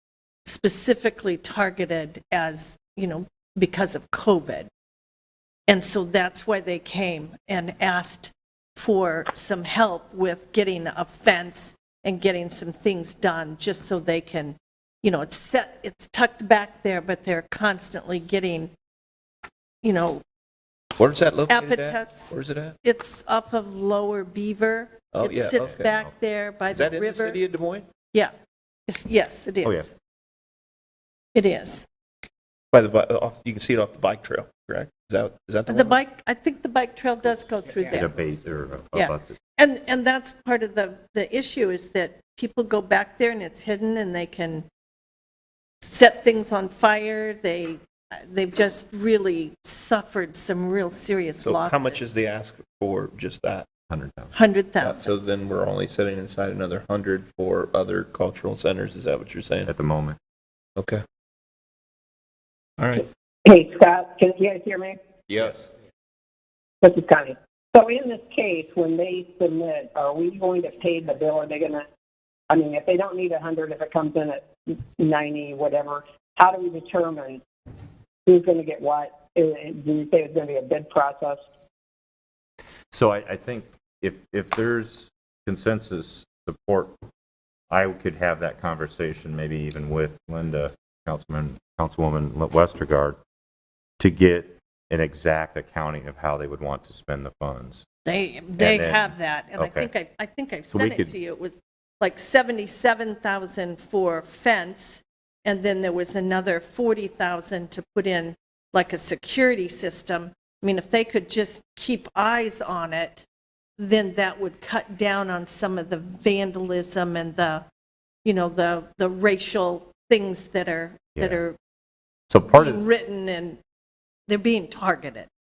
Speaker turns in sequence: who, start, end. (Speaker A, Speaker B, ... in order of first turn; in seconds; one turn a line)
Speaker A: 0.4-4.7
Speaker A: 5.7-18.7
Speaker A: 19.8-20.2
Speaker B: 21.0-22.8
Speaker A: 21.5-27.4
Speaker B: 25.1-25.9
Speaker C: 25.6-26.9
Speaker B: 26.7-27.9
Speaker A: 28.9-29.9
Speaker C: 29.6-29.9
Speaker A: 31.3-31.8
Speaker B: 32.7-36.0
Speaker A: 35.7-38.2
Speaker C: 37.9-39.4
Speaker A: 38.9-44.6
Speaker A: 45.8-52.0
Speaker B: 51.4-53.7
Speaker C: 53.9-54.3
Speaker A: 54.3-55.1
Speaker B: 54.8-59.7
Speaker C: 59.6-60.2
Speaker B: 60.8-61.0
Speaker B: 62.8-63.1
Speaker D: 63.5-65.0
Speaker B: 65.3-65.6
Speaker C: 65.3-65.7
Speaker D: 66.8-71.8
Speaker D: 72.5-77.4
Speaker D: 78.2-81.4
Speaker C: 82.9-86.9
Speaker C: 87.7-93.2
Speaker C: 94.0-97.8
Speaker A: 98.0-113.2
Speaker C: 98.6-99.9
Speaker C: 100.7-101.1
Speaker A: 113.8-117.6
Speaker A: 118.2-121.5
Speaker C: 121.2-121.4
Speaker C: 122.3-122.8
Speaker A: 122.5-123.6
Speaker A: 124.3-125.3